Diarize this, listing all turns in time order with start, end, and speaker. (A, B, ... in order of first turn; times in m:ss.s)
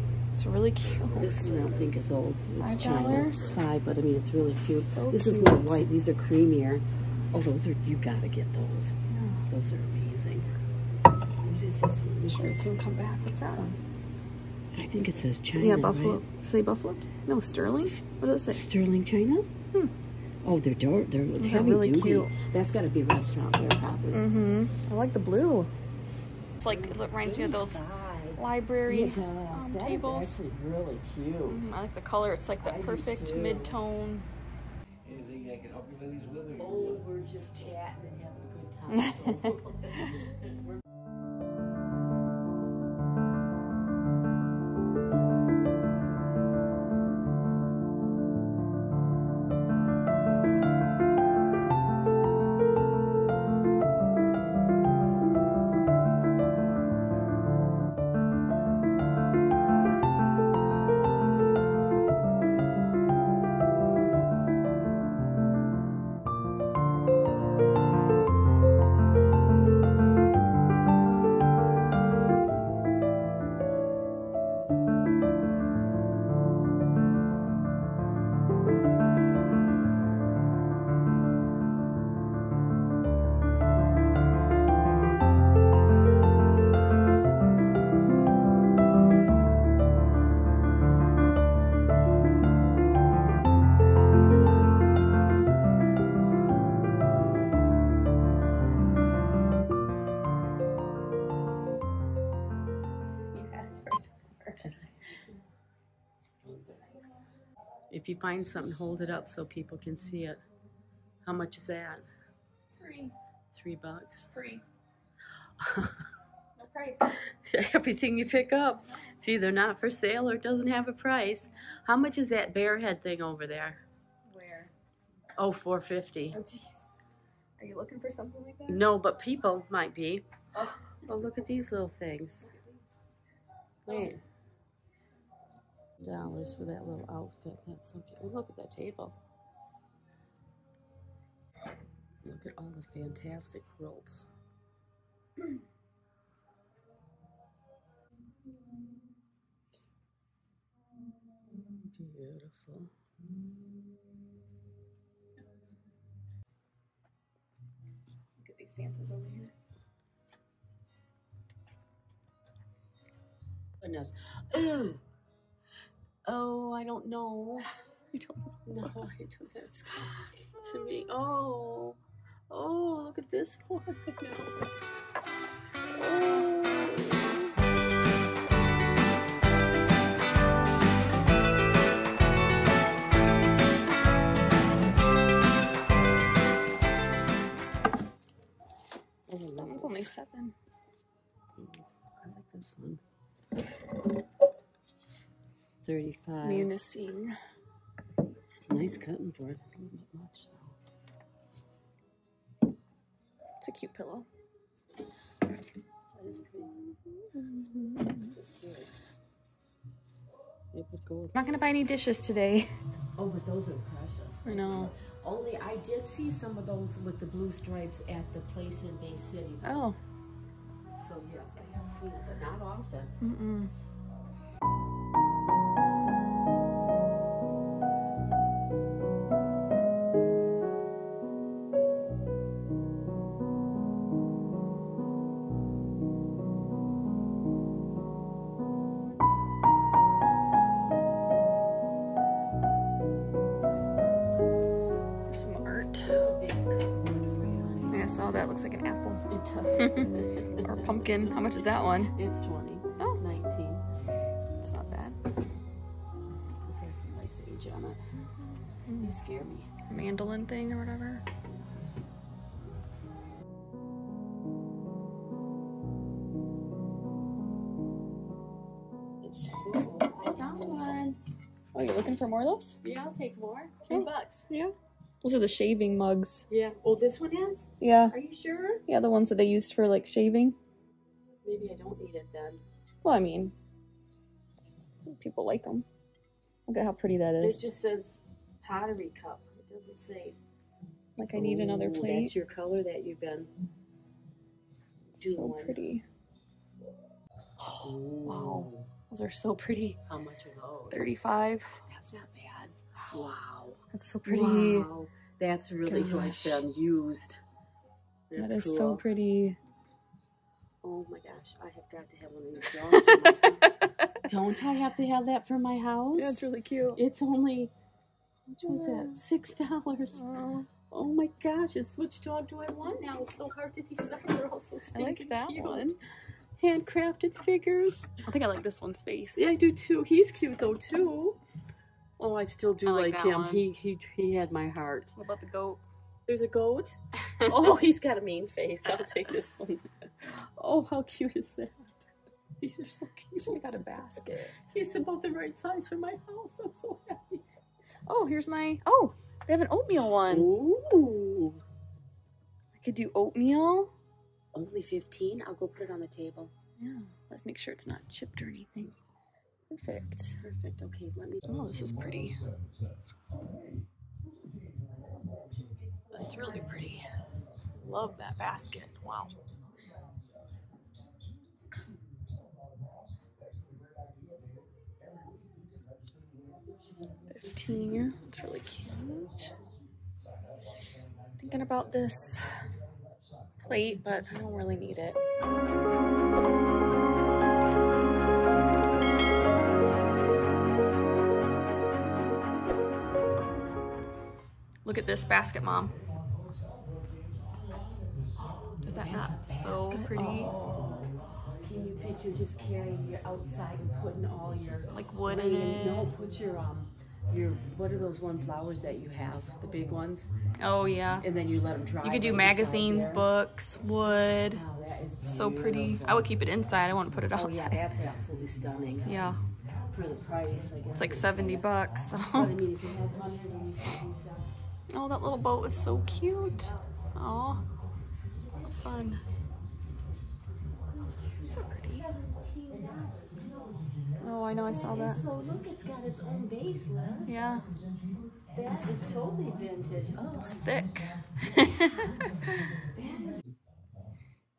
0:00.3-0:01.5 A
0:01.2-0:09.0 B
0:02.6-0:03.5 A
0:04.8-0:05.8 A
0:09.1-0:09.4 A
0:09.5-0:10.5 B
0:11.4-0:12.7 B
0:12.3-0:13.8 A
0:14.7-0:16.2 B
0:15.6-0:18.6 A
0:18.5-0:19.5 B
0:20.4-0:24.3 B
0:21.4-0:22.3 A
0:24.1-0:25.7 A
0:26.6-0:27.8 A
0:26.6-0:31.7 B
0:28.4-0:30.4 A
0:31.5-0:34.3 A
0:32.6-0:33.8 B
0:35.0-0:37.1 C
0:36.6-0:40.1 B
0:38.9-0:39.5 A
1:43.3-1:44.7 A
1:44.6-1:45.0 B
1:46.5-1:47.2 A
1:47.9-1:50.4 B
1:51.2-1:52.1 B
1:52.7-1:53.1 A
1:53.5-1:54.3 B
1:54.3-1:54.6 A
1:55.6-1:56.1 B
1:56.6-1:57.2 A
1:57.2-2:03.8 B
2:04.3-2:04.7 A
2:05.4-2:06.4 B
2:06.3-2:06.9 A
2:07.6-2:08.8 A
2:08.7-2:10.2 B
2:10.5-2:11.1 A
2:11.0-2:12.5 B
2:12.5-2:12.8 A
2:13.8-2:14.2 B
2:13.9-2:14.2 A
2:16.0-2:19.2 B
2:22.2-2:24.3 B
2:31.7-2:32.9 B
2:38.4-2:39.5 A
2:43.8-2:45.0 B
2:46.2-2:47.7 B
2:48.1-2:48.9 A
2:48.6-2:52.0 B
2:52.5-2:54.5 B
2:55.9-2:56.9 A
3:09.3-3:10.0 B
3:09.6-3:10.5 A
3:11.6-3:13.0 B
3:15.8-3:16.7 B
3:16.4-3:17.3 A
3:18.7-3:20.7 B
3:23.6-3:24.3 A
3:26.1-3:26.8 B
3:26.7-3:28.3 A
3:28.1-3:28.9 B
3:30.7-3:31.4 B
3:31.3-3:32.7 A
3:33.2-3:39.8 B
3:34.4-3:34.9 A
3:39.6-3:40.0 A
3:41.0-3:43.1 B
3:43.2-3:43.7 A
4:05.3-4:06.2 A
4:06.0-4:08.1 B
4:07.9-4:09.2 A
4:09.3-4:13.8 B
4:09.8-4:12.1 A
4:14.6-4:15.2 A
4:16.6-4:18.0 B
4:18.7-4:19.2 A
4:19.0-4:19.7 B
4:19.9-4:21.2 A
4:29.2-4:29.5 A
4:29.4-4:31.1 B
4:30.5-4:31.0 A
4:31.7-4:32.8 A
4:32.8-4:34.5 B
4:33.9-4:36.4 A
4:36.5-4:38.8 B
4:37.8-4:38.1 A
4:38.8-4:40.6 A
4:41.4-4:42.6 B
4:43.0-4:43.5 A
4:45.0-4:45.8 A
4:46.7-4:47.7 A
4:47.4-4:50.4 B
4:51.2-4:52.3 A
4:51.3-4:53.5 B
4:55.1-4:55.8 B
4:55.2-4:56.0 A
4:57.6-5:00.0 A
4:57.8-4:58.9 B
5:00.1-5:01.1 B
5:00.9-5:01.8 A
5:01.9-5:07.4 B
5:03.9-5:04.9 A
5:05.8-5:06.6 A
5:08.3-5:09.0 B
5:08.4-5:09.6 A
5:10.8-5:13.6 B
5:12.9-5:14.2 A
5:14.2-5:16.4 B
5:16.1-5:17.0 A
5:17.0-5:17.7 B
5:18.5-5:19.2 A
5:18.7-5:20.3 B
5:20.2-5:20.7 A
5:20.9-5:26.0 B
5:24.9-5:26.0 A
5:26.6-5:28.2 B
5:28.2-5:29.5 A
5:29.4-5:31.4 B
5:32.2-5:35.2 B
5:32.8-5:33.6 A
5:35.1-5:35.8 A
5:36.3-5:42.0 B
5:37.4-5:37.7 A
5:42.6-5:47.4 B
5:43.4-5:44.5 A
5:48.0-5:50.5 A
5:50.3-5:51.6 B
5:52.7-5:53.9 A
5:54.5-5:56.5 B
5:56.8-5:58.9 A
5:59.7-6:00.4 A
6:00.4-6:01.4 B
6:01.4-6:02.4 A
6:06.0-6:06.7 B
6:06.1-6:07.1 A
6:07.8-6:09.3 A
6:17.3-6:19.5 A
6:21.4-6:22.6 A
6:23.6-6:25.2 A
6:34.8-6:35.9 A
6:38.8-6:40.5 A
6:38.9-6:50.3 B
6:44.9-6:46.1 A
6:50.6-6:51.3 A
6:51.2-6:53.2 B
6:52.0-6:54.6 A
6:54.5-6:56.2 B
6:55.2-6:57.8 A
6:57.3-6:59.1 B
6:59.0-6:59.4 A
6:59.9-7:01.7 B
7:00.9-7:02.6 A
7:02.3-7:04.5 B
7:04.9-7:07.6 A
7:06.4-7:07.2 B
7:08.5-7:08.8 B
7:08.7-7:09.2 A
7:10.9-7:14.0 B
7:11.5-7:12.0 A
7:14.2-7:15.2 A
7:14.6-7:17.4 B
7:17.2-7:17.7 A
7:18.5-7:20.6 B
7:18.7-7:18.9 A
7:20.4-7:22.8 A
7:22.9-7:23.4 B